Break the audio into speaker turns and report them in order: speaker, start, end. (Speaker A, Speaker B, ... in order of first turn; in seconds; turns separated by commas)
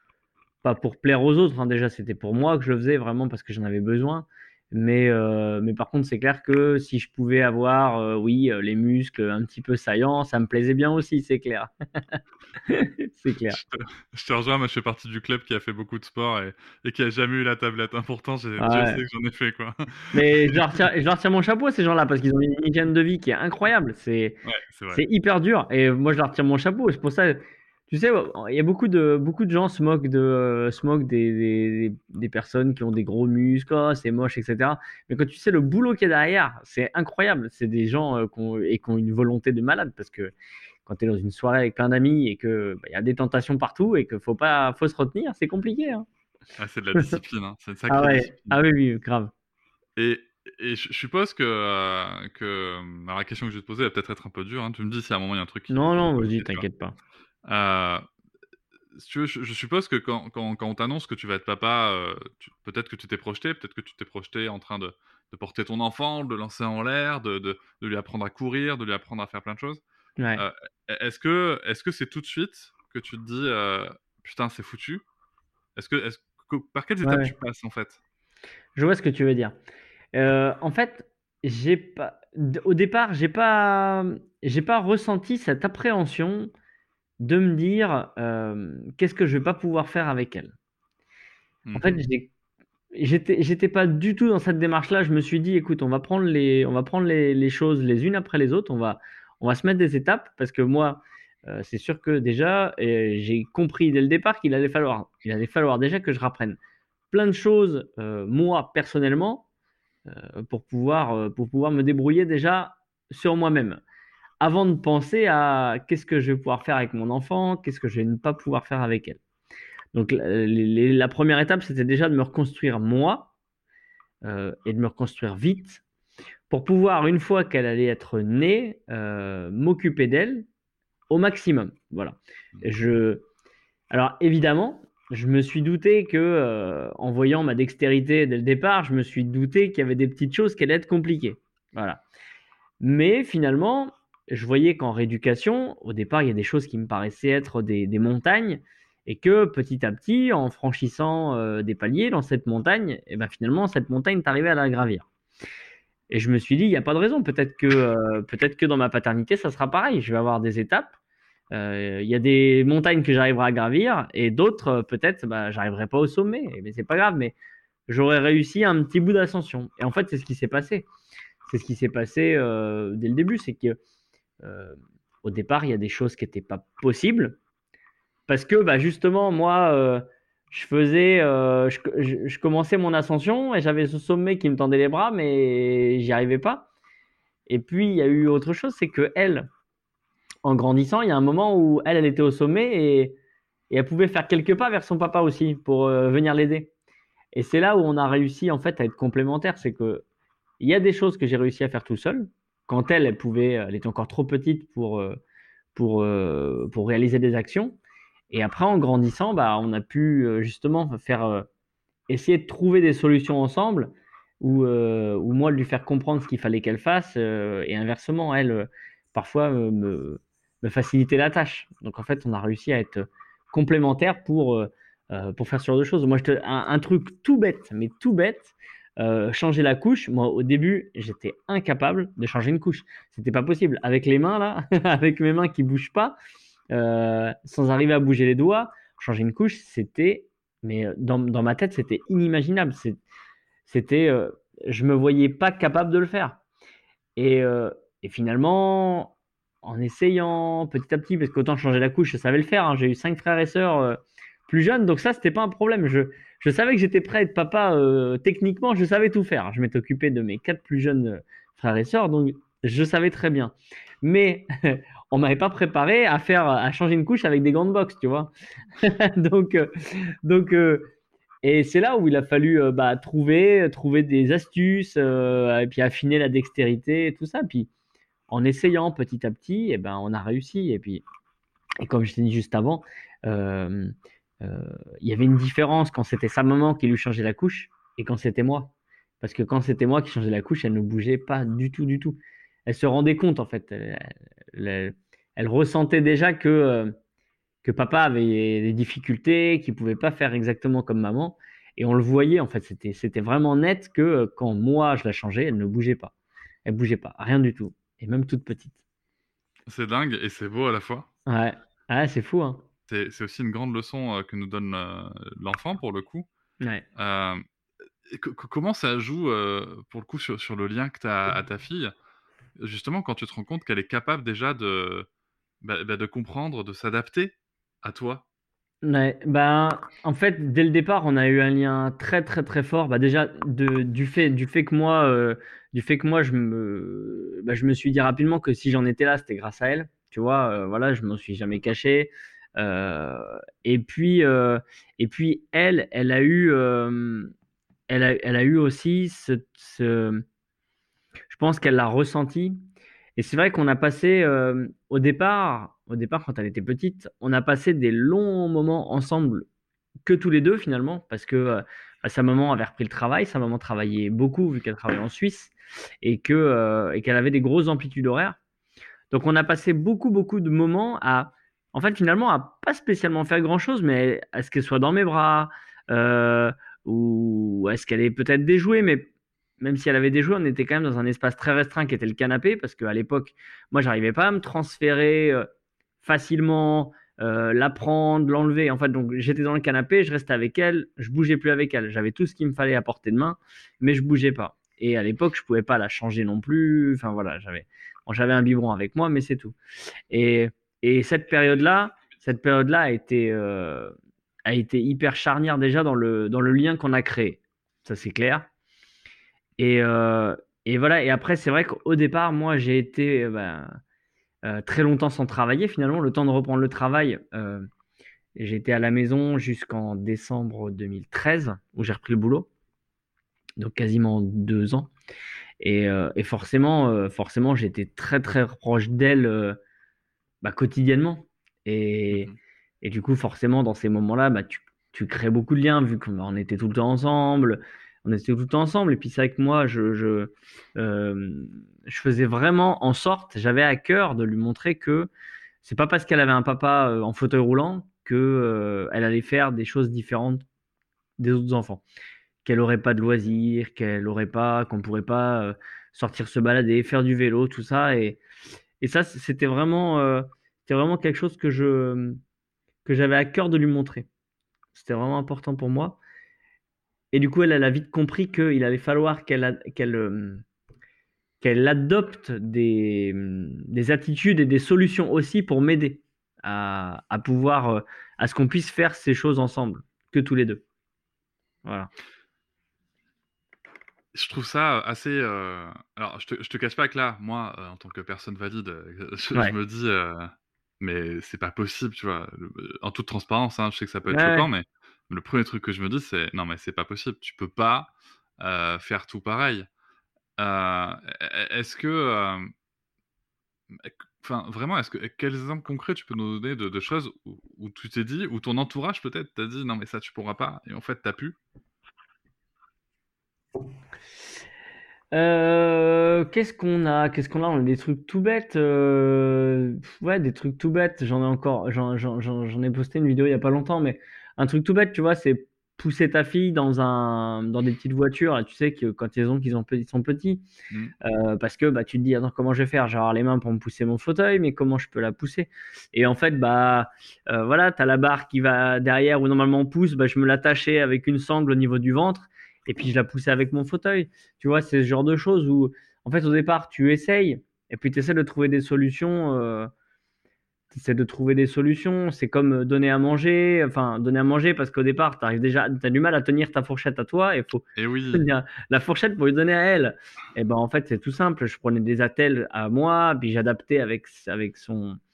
Speaker A: 0.6-13.6, Speaker B: 13.5-20.7, Speaker A: 18.6-19.0, Speaker A: 20.1-24.4, Speaker B: 24.4-25.0, Speaker A: 24.9-40.3, Speaker A: 40.9-46.0, Speaker B: 46.6-48.6, Speaker A: 47.9-49.3, Speaker B: 50.0-56.6, Speaker A: 55.7-56.9, Speaker B: 57.4-58.0, Speaker B: 59.0-69.8, Speaker A: 70.2-70.4, Speaker B: 70.3-75.0, Speaker B: 75.8-78.0, Speaker A: 77.0-77.3, Speaker A: 78.7-79.5, Speaker A: 80.1-86.5, Speaker A: 87.2-90.5, Speaker B: 91.7-92.0, Speaker A: 91.7-92.3, Speaker A: 92.9-106.6, Speaker A: 107.1-109.5, Speaker A: 110.0-113.8, Speaker A: 114.4-119.2, Speaker A: 119.9-123.3, Speaker A: 124.2-125.8, Speaker A: 126.5-130.4, Speaker A: 131.1-133.2, Speaker A: 133.9-142.0, Speaker A: 142.8-155.1, Speaker A: 156.1-160.9, Speaker A: 161.5-167.3, Speaker A: 167.9-170.9, Speaker A: 171.4-173.8, Speaker A: 174.4-177.4, Speaker A: 178.3-186.7, Speaker A: 187.5-189.5, Speaker A: 190.4-193.2, Speaker A: 193.7-196.7, Speaker A: 197.3-200.0, Speaker A: 200.6-205.2, Speaker A: 205.7-207.8, Speaker A: 208.3-211.5, Speaker A: 212.1-236.2, Speaker A: 236.7-243.0, Speaker A: 243.7-246.4, Speaker A: 247.2-270.9, Speaker A: 271.4-277.7, Speaker A: 278.3-281.0, Speaker A: 281.8-296.9, Speaker A: 297.6-306.1, Speaker A: 306.6-308.8, Speaker B: 309.7-311.1, Speaker A: 311.2-312.6, Speaker B: 312.9-316.3, Speaker B: 316.9-317.4, Speaker B: 318.1-321.9, Speaker B: 322.6-325.1, Speaker B: 325.6-328.2, Speaker A: 328.8-347.3, Speaker A: 347.9-350.2, Speaker A: 351.3-352.6, Speaker A: 353.1-359.5, Speaker A: 360.0-368.4, Speaker A: 369.1-379.1, Speaker A: 379.6-385.5, Speaker A: 386.0-399.6, Speaker A: 400.1-403.9, Speaker A: 404.4-408.5, Speaker A: 409.6-413.8, Speaker A: 414.4-417.7, Speaker A: 418.4-422.5, Speaker A: 423.6-424.9, Speaker A: 425.6-429.6, Speaker A: 430.4-432.3, Speaker B: 432.1-432.4, Speaker A: 432.8-445.1, Speaker A: 445.6-450.4, Speaker A: 451.2-451.8, Speaker A: 452.4-458.2, Speaker A: 458.8-462.2, Speaker A: 462.8-464.1, Speaker A: 464.7-466.0, Speaker A: 467.1-470.4, Speaker A: 471.4-480.6, Speaker A: 481.6-481.9, Speaker B: 484.1-499.7, Speaker A: 494.1-494.5, Speaker B: 500.4-502.5, Speaker B: 503.7-511.4, Speaker A: 515.1-530.5, Speaker A: 531.0-549.7, Speaker A: 550.7-565.0, Speaker B: 557.8-558.3